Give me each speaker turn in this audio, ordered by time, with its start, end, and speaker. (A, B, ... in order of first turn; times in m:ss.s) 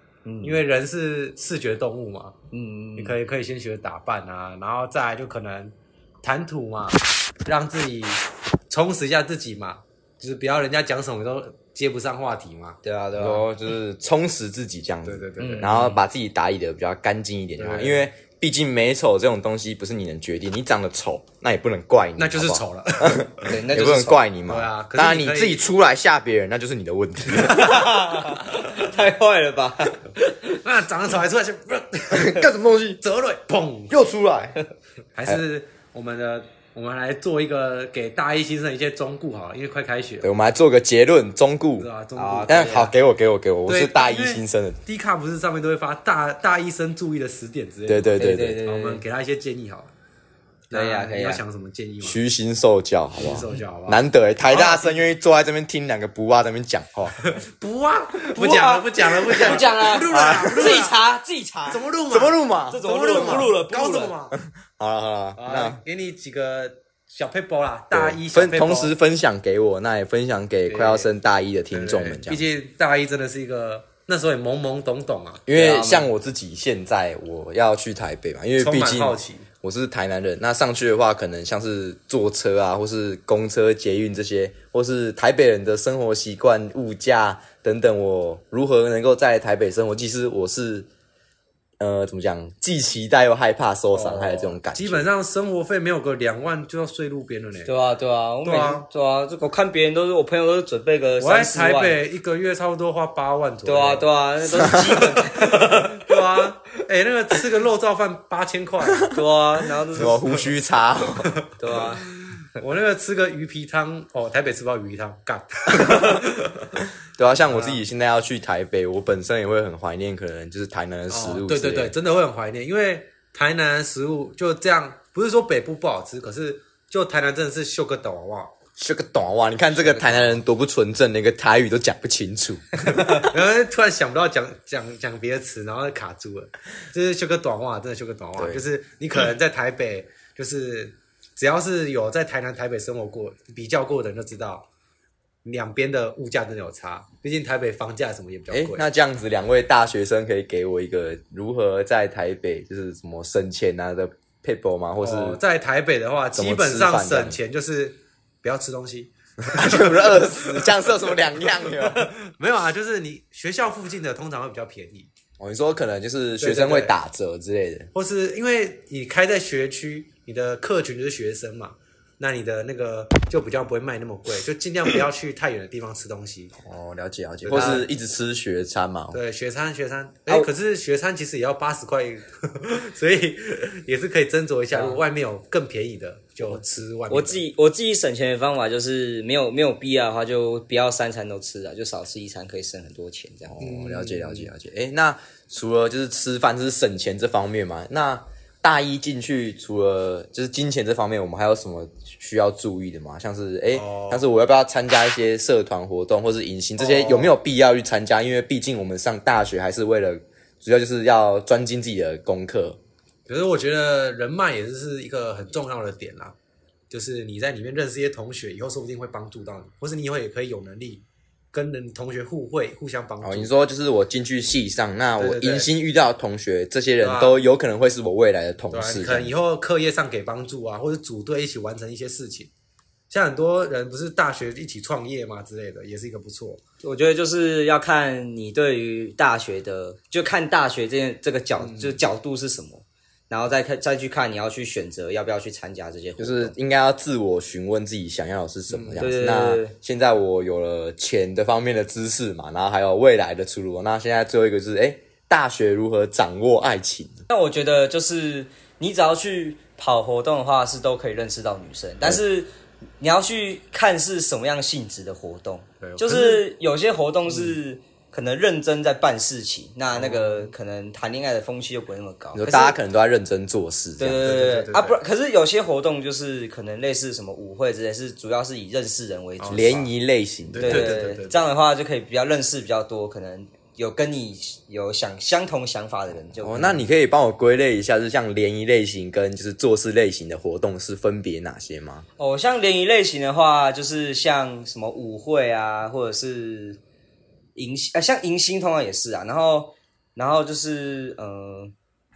0:00.2-0:00.6 A
0:00.4-0:02.4 B
0:02.5-0:03.1 A
0:03.0-0:12.8 B
0:12.8-0:13.4 A
0:13.2-0:27.8 C
0:15.0-0:15.8 B
0:15.4-0:16.0 A
0:17.6-0:18.1 B
0:22.2-0:23.3 B
0:23.4-0:24.2 A
0:24.5-0:25.7 B
0:27.4-0:30.6 A
0:30.6-0:32.5 B
0:32.1-0:33.0 C
0:33.0-0:33.9 B
0:33.9-0:34.6 C
0:35.1-0:40.3 B
0:40.2-0:41.9 C
0:41.8-0:42.9 B
0:42.1-0:42.9 A
0:42.5-0:44.8 C
0:43.6-0:49.9 B
0:47.9-0:48.6 C
0:48.2-0:49.0 A
0:50.7-0:52.2 B
0:50.7-0:51.4 A
0:52.0-0:57.2 C
0:53.2-0:55.1 B
0:57.2-1:01.0 B
0:58.3-1:01.8 A
0:59.3-1:00.7 C
1:01.7-1:04.4 B
1:02.1-1:03.5 C
1:02.7-1:04.2 A
1:04.3-1:05.8 C
1:05.4-1:08.9 B
1:07.9-1:12.4 C
1:10.7-1:11.1 B
1:11.7-1:15.4 B
1:15.4-1:30.9 C
1:15.5-1:16.1 A
1:18.6-1:19.5 B
1:31.8-1:35.0 C
1:33.9-1:37.7 B
1:37.6-1:42.0 A
1:38.4-1:38.9 B
1:41.2-1:44.1 B
1:43.6-1:46.5 A
1:44.5-1:45.0 C
1:44.7-1:49.1 B
1:48.9-1:49.2 C
1:49.1-1:50.3 A
1:49.9-1:51.3 C
1:50.1-1:50.4 B
1:51.2-1:51.5 B
1:51.6-1:52.1 A
1:52.2-1:56.7 B
1:55.7-1:56.2 C
1:57.2-2:01.9 C
1:57.4-1:57.8 B
2:01.1-2:08.5 B
2:08.8-2:13.3 C
2:09.8-2:10.4 A
2:13.0-2:24.7 B
2:18.4-2:18.6 C
2:25.4-2:28.8 B
2:28.5-2:35.4 C
2:35.0-2:45.1 B
2:36.3-2:37.4 C
2:39.4-2:42.1 C
2:45.4-2:47.9 C
2:46.4-2:47.0 B
2:47.9-2:56.5 B
2:56.6-2:59.2 C
2:57.4-2:57.9 B
2:59.1-3:07.4 B
3:04.7-3:05.0 A
3:07.1-3:13.6 A
3:13.5-3:32.8 C
3:13.6-3:14.5 B
3:23.7-3:24.2 B
3:26.8-3:27.3 B
3:33.3-3:36.3 B
3:36.9-3:43.5 B
3:43.2-3:49.3 C
3:45.2-3:45.7 B
3:47.0-3:47.4 B
3:48.7-3:52.5 B
3:53.1-3:56.6 B
3:56.8-4:06.5 A
4:01.6-4:02.0 B
4:06.2-4:17.2 C
4:08.7-4:09.1 B
4:09.0-4:09.7 A
4:17.3-4:32.8 A
4:25.8-4:26.4 B
4:27.3-4:27.6 B
4:29.9-4:30.5 B
4:32.3-4:34.2 C
4:34.0-4:39.8 A
4:34.2-4:35.0 B
4:39.4-4:39.8 B
4:39.5-4:41.0 C
4:40.5-4:41.4 B
4:40.6-4:46.8 A
4:46.4-4:52.0 C
4:52.2-4:56.8 A
4:57.6-5:01.7 A